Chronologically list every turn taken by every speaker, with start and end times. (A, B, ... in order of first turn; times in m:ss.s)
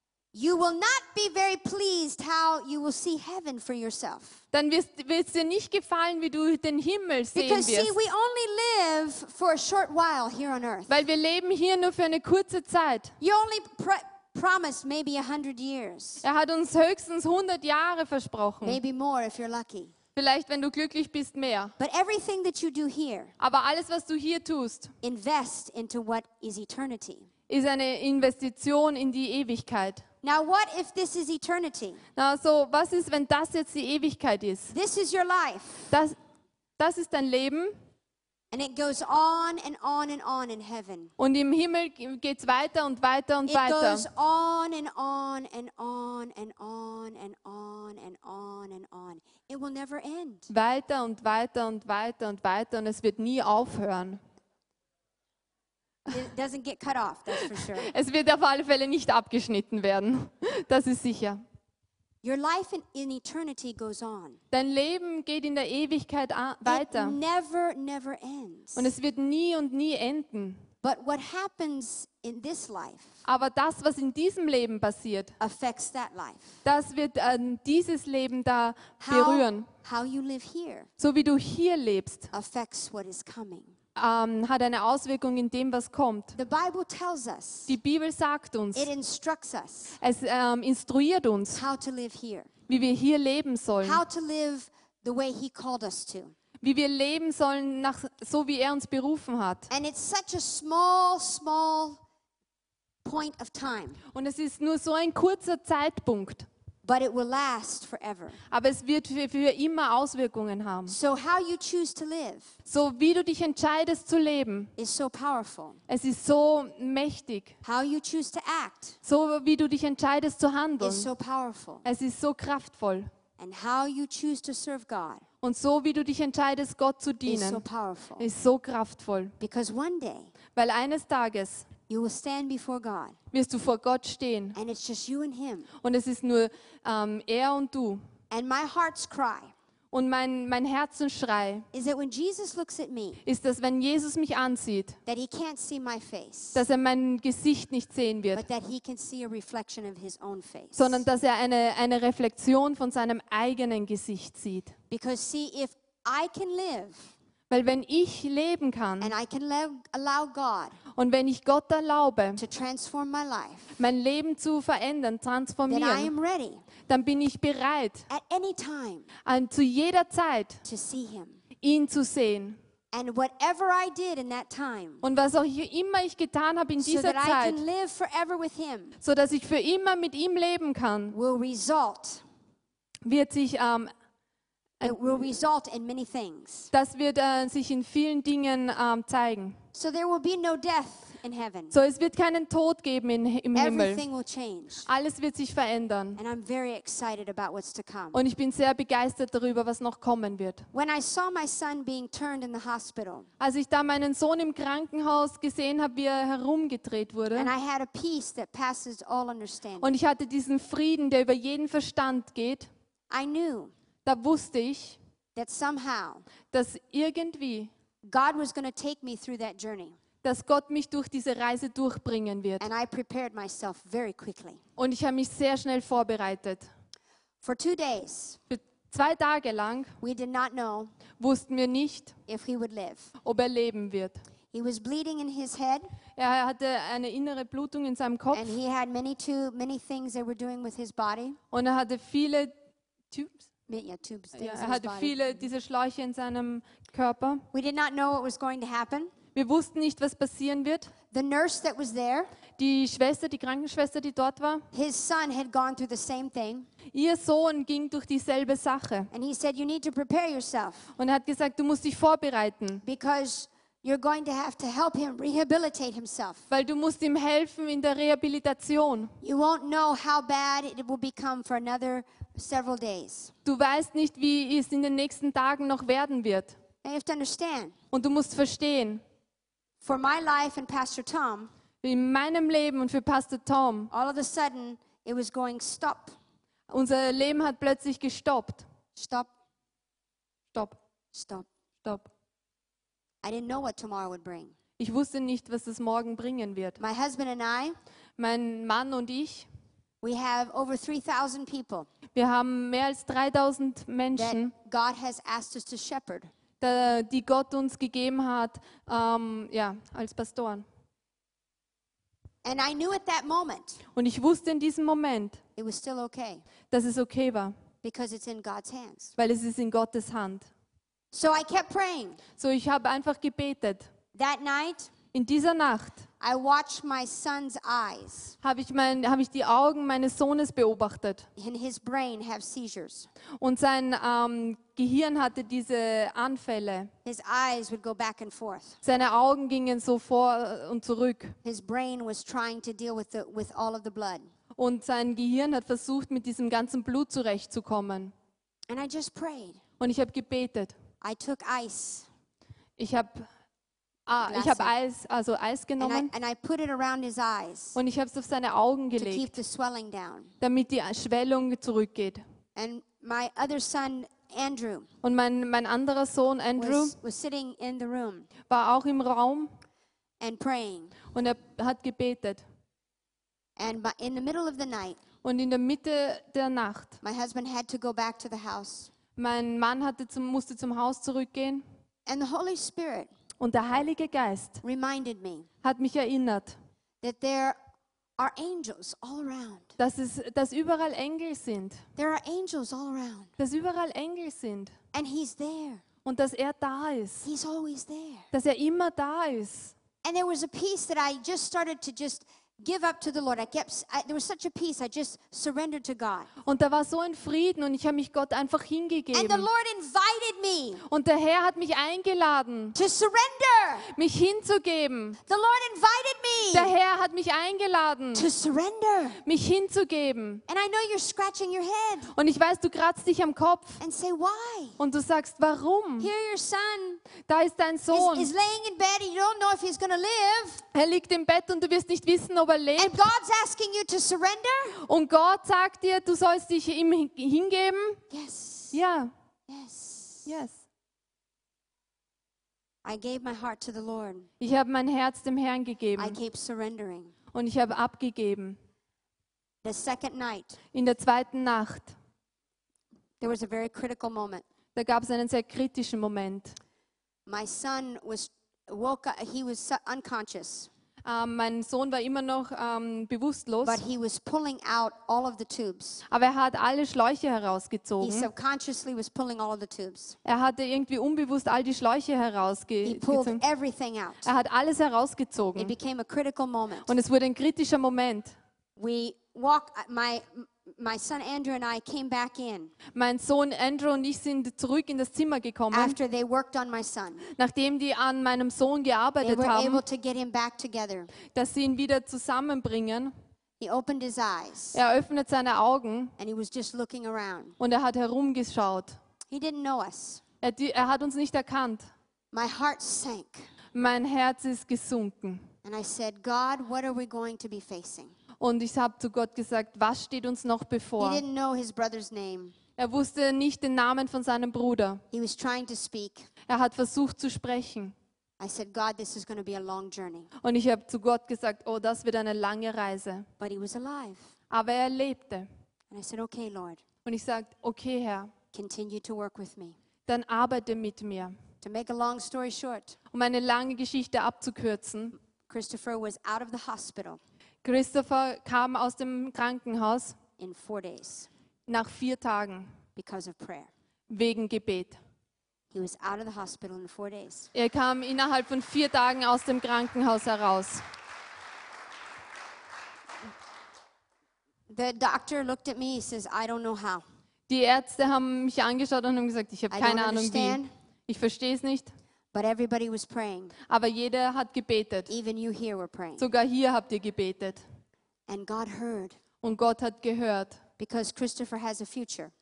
0:00.3-0:04.4 A
0:04.5-0:08.0 B
0:07.4-0:10.9 A
0:10.9-0:13.1 B
0:13.2-0:16.2 A
0:16.2-0:18.8 B
0:18.6-0:19.9 A
0:20.2-0:21.7 B
0:21.8-0:23.3 A
0:23.4-0:24.9 B
0:25.0-0:27.3 A
0:27.5-0:30.0 B
0:30.2-0:32.0 A
0:32.2-0:34.7 B
0:34.7-0:35.9 A
0:35.9-0:36.2 B
0:36.8-0:37.8 B
0:38.5-0:41.1 A
0:41.2-0:44.1 B
0:43.5-0:50.5 A
0:50.5-0:54.2 B
0:56.1-0:57.9 A
0:57.6-1:01.4 B
1:02.2-1:04.4 A
1:04.5-1:07.2 B
1:06.6-1:08.9 A
1:08.8-1:10.6 B
1:10.8-1:13.2 A
1:13.2-1:15.3 B
1:15.4-1:16.6 A
1:16.6-1:19.7 B
1:19.0-1:20.9 A
1:21.0-1:22.3 B
1:22.3-1:23.7 A
1:24.0-1:26.4 B
1:26.3-1:27.7 A
1:27.7-1:28.9 B
1:28.8-1:30.0 A
1:30.0-1:31.6 B
1:31.5-1:32.5 A
1:32.7-1:34.0 B
1:33.8-1:36.3 A
1:36.6-1:39.7 B
1:39.7-1:42.0 A
1:43.0-1:44.0 A
1:44.1-1:46.5 B
1:46.8-1:48.4 A
1:48.5-1:51.0 B
1:50.9-1:52.5 A
1:52.7-1:54.7 B
1:54.8-1:55.8 A
1:55.9-1:57.6 B
1:57.6-1:59.0 A
1:59.0-2:01.1 B
2:00.8-2:01.9 A
2:01.8-2:03.1 B
2:03.4-2:05.2 A
2:05.4-2:07.6 B
2:07.3-2:08.3 A
2:08.2-2:09.3 B
2:09.4-2:10.3 A
2:10.6-2:11.7 B
2:11.9-2:13.2 A
2:13.3-2:14.6 B
2:14.6-2:15.7 A
2:15.8-2:18.0 B
2:18.3-2:19.5 A
2:19.9-2:21.7 B
2:21.7-2:23.2 A
2:23.2-2:25.0 B
2:25.1-2:26.6 A
2:26.5-2:28.4 B
2:28.4-2:31.0 A
2:30.8-2:34.7 B
2:34.9-2:37.1 A
2:37.5-2:39.1 B
2:39.0-2:40.8 A
2:41.0-2:42.4 B
2:42.4-2:43.8 A
2:43.8-2:46.1 B
2:45.7-2:46.6 A
2:46.9-2:48.1 B
2:48.1-2:49.1 A
2:49.3-2:50.6 B
2:50.6-2:51.4 A
2:51.6-2:52.6 B
2:52.9-2:55.0 A
2:55.0-2:57.6 B
2:56.8-2:59.0 A
2:59.0-3:01.2 B
3:01.1-3:02.2 A
3:03.1-3:03.9 B
3:04.8-3:06.7 A
3:06.7-3:09.6 B
3:09.7-3:11.7 A
3:11.7-3:14.0 B
3:13.6-3:14.9 A
3:14.9-3:16.2 B
3:16.2-3:18.2 A
3:18.1-3:20.6 B
3:20.7-3:23.3 A
3:23.4-3:27.5 B
3:27.4-3:29.9 A
3:29.8-3:32.7 B
3:33.1-3:33.7 A
3:34.0-3:35.0 B
3:35.4-3:36.3 A
3:36.5-3:37.7 B
3:38.0-3:40.0 A
3:40.2-3:42.7 B
3:42.6-3:44.6 A
3:44.8-3:46.7 B
3:47.4-3:48.4 A
3:48.5-3:49.9 B
3:50.0-3:50.9 A
3:51.2-3:52.2 B
3:52.3-3:53.1 A
3:53.2-3:54.2 B
3:54.5-3:55.9 A
3:56.2-3:58.5 B
3:58.3-4:01.4 A
4:01.5-4:02.5 B
4:03.1-4:03.4 B
4:03.7-4:05.2 A
4:04.4-4:07.4 B
4:07.5-4:09.1 A
4:09.4-4:10.9 B
4:11.1-4:12.3 A
4:12.6-4:14.6 B
4:14.7-4:16.7 A
4:16.9-4:19.1 B
4:19.1-4:20.9 A
4:21.0-4:22.8 B
4:22.8-4:26.4 A
4:26.5-4:29.1 B
4:29.2-4:33.3 A
4:33.4-4:36.6 B
4:36.8-4:37.8 A
4:37.9-4:39.0 B
4:39.8-4:41.5 A
4:41.8-4:43.9 B
4:43.9-4:46.2 A
4:46.7-4:48.7 B
4:49.0-4:49.3 A
4:51.1-4:51.5 A
4:53.2-4:54.5 A
4:54.8-4:56.8 B
4:56.8-4:57.8 A
4:58.2-4:59.5 B
5:00.0-5:01.9 A
5:02.2-5:04.5 B
5:04.2-5:06.3 A
5:06.6-5:10.6 B
5:12.4-5:13.8 A
5:14.0-5:15.4 B
5:15.6-5:16.4 A
5:16.7-5:17.5 B
5:17.8-5:19.1 A
5:19.2-5:20.5 B
5:21.1-5:22.2 A
5:22.4-5:23.9 B
5:24.1-5:24.9 A
5:25.1-5:26.0 B
5:26.2-5:28.4 A
5:28.4-5:31.3 B
5:31.4-5:33.1 A
5:33.4-5:36.9 B
5:37.0-5:38.8 A
5:38.8-5:41.4 B
5:41.4-5:44.3 A
5:44.6-5:48.1 B
5:48.7-5:49.6 A
5:49.8-5:50.7 B
5:51.0-5:52.1 A
5:52.8-5:53.3 B
5:54.1-5:56.1 B
5:54.2-5:54.8 A
5:55.8-5:57.8 A
5:57.8-5:59.3 B
5:59.0-6:00.3 A
6:00.4-6:02.2 B
6:02.6-6:04.9 A
6:05.0-6:07.0 B
6:06.6-6:08.3 A
6:08.5-6:09.5 B
6:10.2-6:11.0 A
6:11.1-6:12.4 B
6:13.6-6:15.0 A
6:15.2-6:17.0 B
6:17.0-6:18.9 A
6:19.2-6:21.6 B
6:22.1-6:23.1 A
6:23.4-6:24.6 B
6:24.6-6:25.5 A
6:25.6-6:26.6 B
6:27.0-6:27.6 A
6:28.2-6:29.7 A
6:29.8-6:31.8 B
6:32.0-6:33.3 A
6:33.4-6:34.7 B
6:34.9-6:35.8 A
6:36.0-6:37.3 B
6:37.2-6:38.3 A
6:38.3-6:39.8 B
6:40.0-6:46.3 A
6:46.4-6:49.5 B
6:49.1-6:50.8 A
6:50.9-6:52.8 B
6:52.8-6:53.9 A
6:53.9-6:55.2 B
6:55.3-6:56.7 A
6:56.5-6:58.3 B
6:58.2-6:59.2 A
6:59.3-7:00.4 B
7:00.5-7:02.1 A
7:02.1-7:03.8 B
7:03.8-7:04.8 A
7:04.8-7:06.1 B
7:06.0-7:07.0 A
7:07.3-7:08.3 B
7:07.9-7:10.6 A
7:10.7-7:13.0 B
7:12.8-7:14.8 A
7:14.8-7:18.0 B
7:18.1-7:18.8 A
7:18.7-7:19.1 B
7:19.5-7:20.3 A
7:20.3-7:20.6 B
7:22.8-7:24.3 A
7:24.4-7:26.2 B
7:26.0-7:27.1 A
7:27.3-7:28.6 B
7:29.6-7:30.6 A
7:30.7-7:31.9 B
7:33.2-7:34.4 A
7:34.8-7:36.6 B
7:37.3-7:40.7 A
7:41.1-7:43.8 B
7:43.6-7:46.0 A
7:46.1-7:48.3 B
7:48.0-7:50.2 A
7:50.2-7:53.4 B
7:52.8-7:54.3 A
7:54.2-7:55.7 B
7:55.6-7:56.9 A
7:56.9-7:58.4 B
7:58.8-8:02.7 A
8:03.0-8:06.0 B
8:05.7-8:07.2 A
8:07.3-8:09.8 B
8:09.2-8:11.1 A
8:11.3-8:13.1 B
8:13.6-8:14.8 A
8:14.7-8:16.1 B
8:16.2-8:17.6 A
8:17.6-8:19.0 B
8:19.3-8:20.2 A
8:20.4-8:21.9 B
8:22.3-8:23.5 A
8:23.8-8:25.5 B
8:25.6-8:28.1 A
8:28.4-8:31.2 B
8:31.0-8:32.6 A
8:32.8-8:35.0 B
8:35.1-8:36.3 A
8:36.5-8:37.9 B
8:38.4-8:40.3 A
8:40.4-8:43.3 B
8:43.4-8:44.2 A
8:44.5-8:45.5 B
8:45.9-8:46.8 A
8:47.0-8:48.3 B
8:48.5-8:49.8 A
8:50.1-8:51.4 B
8:51.6-8:53.0 A
8:53.1-8:55.2 B
8:55.5-8:57.2 A
8:57.6-9:00.2 B
9:00.4-9:01.3 A
9:01.7-9:02.7 B
9:03.0-9:03.7 A
9:04.1-9:05.0 B
9:05.7-9:07.5 A
9:07.5-9:10.8 B
9:14.7-9:17.0 A
9:17.5-9:21.9 B
9:19.7-9:20.7 A
9:22.3-9:23.6 A
9:23.7-9:25.1 B
9:25.1-9:26.3 A
9:26.2-9:27.6 B
9:28.3-9:29.2 A
9:29.4-9:30.6 B
9:30.8-9:32.3 A